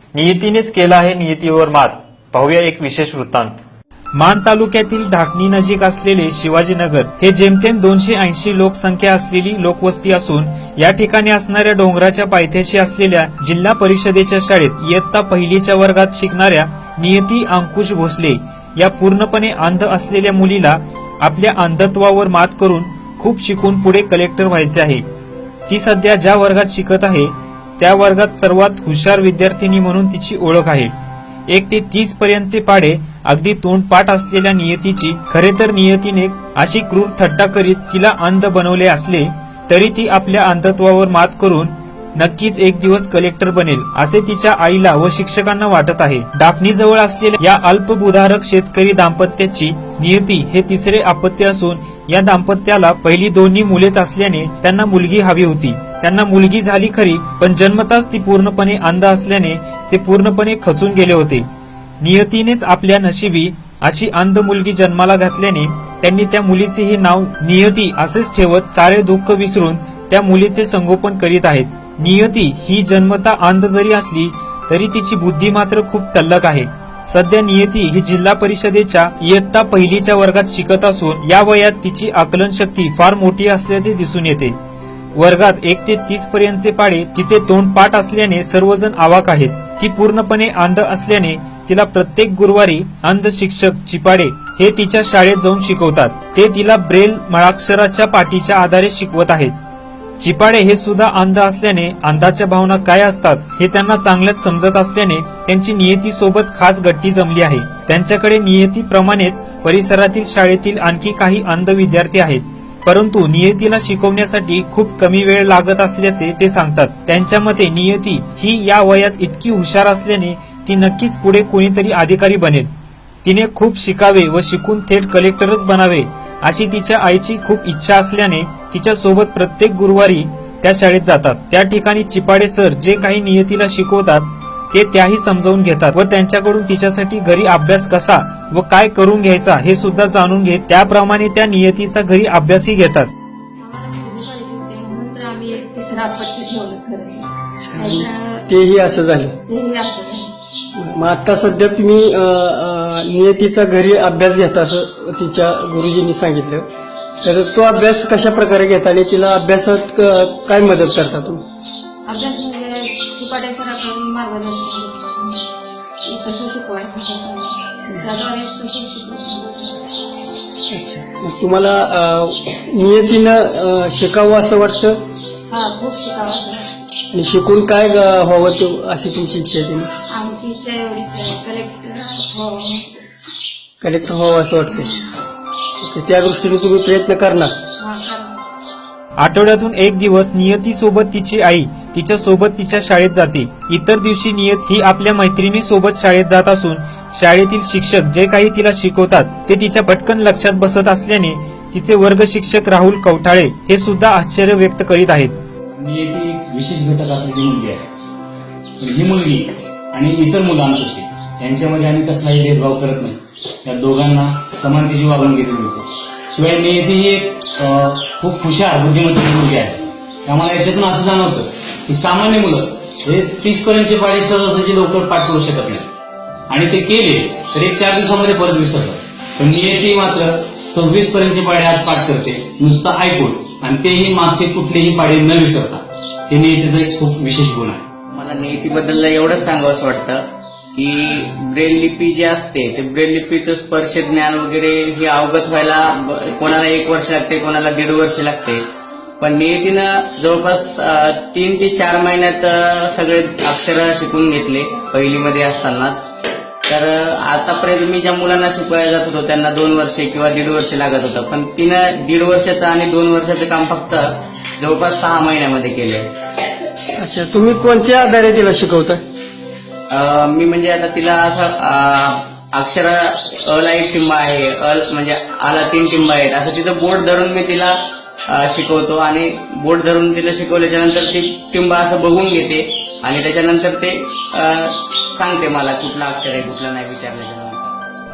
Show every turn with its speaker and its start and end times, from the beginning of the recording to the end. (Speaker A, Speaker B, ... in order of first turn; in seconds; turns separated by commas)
Speaker A: 0.1-3.6, Speaker A: 4.1-25.0, Speaker A: 25.7-30.9, Speaker A: 31.5-61.5, Speaker A: 62.0-84.5, Speaker A: 85.2-99.5, Speaker A: 100.2-122.7, Speaker A: 123.2-143.1, Speaker B: 143.6-148.5, Speaker C: 147.6-149.4, Speaker B: 149.5-150.3, Speaker C: 150.8-156.7, Speaker C: 157.2-161.4, Speaker B: 162.1-165.4, Speaker B: 166.0-169.8, Speaker C: 170.7-175.0, Speaker B: 175.5-176.7, Speaker C: 177.1-179.9, Speaker B: 180.1-183.0, Speaker C: 183.8-184.9, Speaker C: 185.8-187.5, Speaker B: 187.8-188.5, Speaker A: 189.2-205.4, Speaker D: 205.7-207.9, Speaker D: 208.8-225.9, Speaker D: 226.5-237.9, Speaker E: 238.1-240.2, Speaker E: 240.7-248.6, Speaker E: 249.2-256.1, Speaker E: 256.7-266.1, Speaker C: 267.0-269.0, Speaker E: 269.9-277.8, Speaker E: 278.3-287.7